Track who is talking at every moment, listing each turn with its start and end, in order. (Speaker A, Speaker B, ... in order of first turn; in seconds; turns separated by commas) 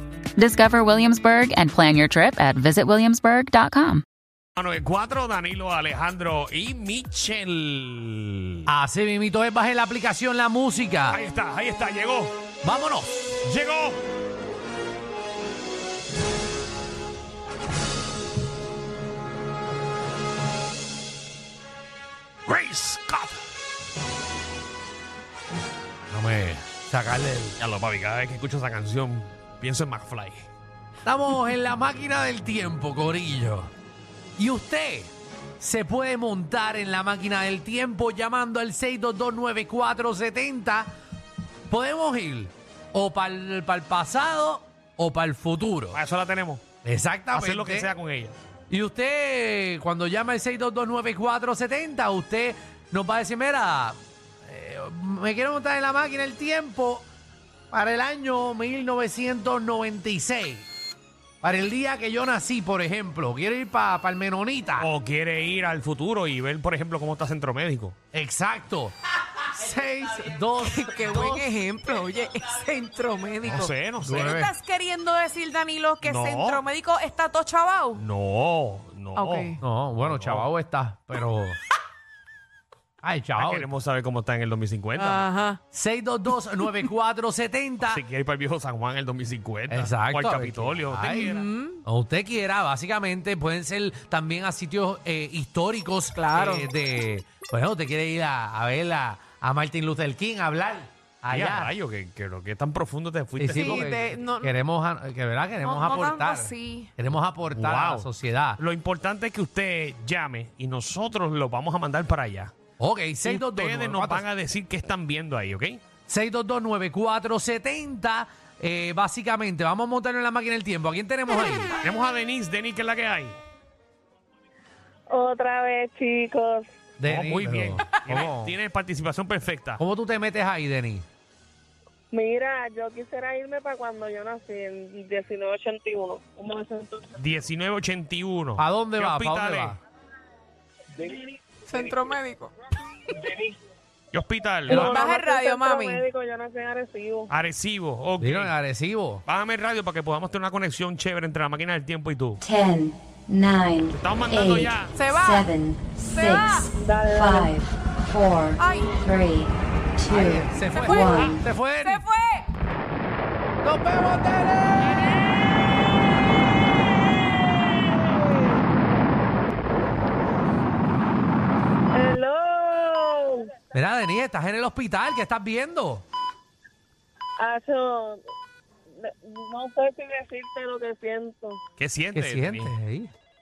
Speaker A: 0.4-4.0, Speaker B: 4.6-8.7, Speaker C: 8.7-11.2, Speaker B: 11.1-12.4, Speaker C: 12.6-13.4, Speaker B: 13.4-14.0, Speaker B: 22.5-23.4, Speaker C: 26.1-27.6, Speaker B: 27.6-30.5, Speaker C: 31.0-33.7, Speaker C: 34.4-40.9, Speaker C: 41.7-46.0, Speaker B: 45.9-46.6, Speaker C: 46.8-47.9, Speaker B: 47.3-48.4, Speaker C: 48.7-57.1, Speaker C: 57.7-60.7, Speaker C: 61.4-64.9, Speaker B: 64.8-67.9, Speaker C: 68.1-71.5, Speaker D: 70.6-73.7, Speaker B: 73.4-74.4, Speaker C: 73.5-74.5, Speaker D: 74.3-78.0, Speaker B: 76.0-76.6, Speaker B: 78.0-80.5, Speaker D: 79.1-79.6, Speaker C: 79.6-81.6, Speaker C: 83.0-83.7, Speaker B: 83.3-85.3, Speaker D: 85.0-85.6, Speaker C: 85.7-88.0, Speaker D: 86.6-86.9, Speaker B: 87.8-91.5, Speaker C: 89.7-101.7, Speaker D: 91.2-91.8, Speaker D: 96.1-96.7, Speaker B: 101.3-103.9, Speaker C: 103.4-108.6, Speaker D: 103.5-104.5, Speaker D: 105.6-106.9, Speaker B: 107.5-112.5, Speaker C: 112.8-114.3, Speaker B: 113.2-115.8, Speaker C: 116.1-121.7, Speaker B: 121.8-123.4, Speaker E: 125.1-126.7, Speaker C: 127.0-128.5, Speaker B: 127.0-129.8, Speaker C: 129.8-131.1, Speaker E: 132.1-137.1, Speaker B: 137.2-139.8, Speaker C: 138.6-139.8, Speaker E: 141.1-141.9, Speaker D: 141.7-142.5, Speaker E: 143.2-143.5, Speaker B: 144.1-145.0, Speaker E: 144.7-147.3, Speaker C: 144.7-145.0, Speaker D: 144.8-146.1, Speaker B: 147.3-148.5, Speaker C: 148.2-149.2, Speaker B: 149.2-152.4, Speaker F: 152.4-161.4, Speaker B: 153.8-154.9, Speaker D: 154.9-155.5, Speaker D: 156.0-156.7, Speaker E: 156.8-157.5, Speaker D: 158.6-158.9, Speaker C: 160.1-162.0, Speaker D: 160.4-162.5, Speaker C: 163.6-165.6, Speaker E: 171.9-173.5, Speaker C: 173.7-176.0, Speaker E: 177.4-178.2, Speaker E: 178.9-181.6, Speaker B: 181.8-182.7, Speaker C: 182.1-183.1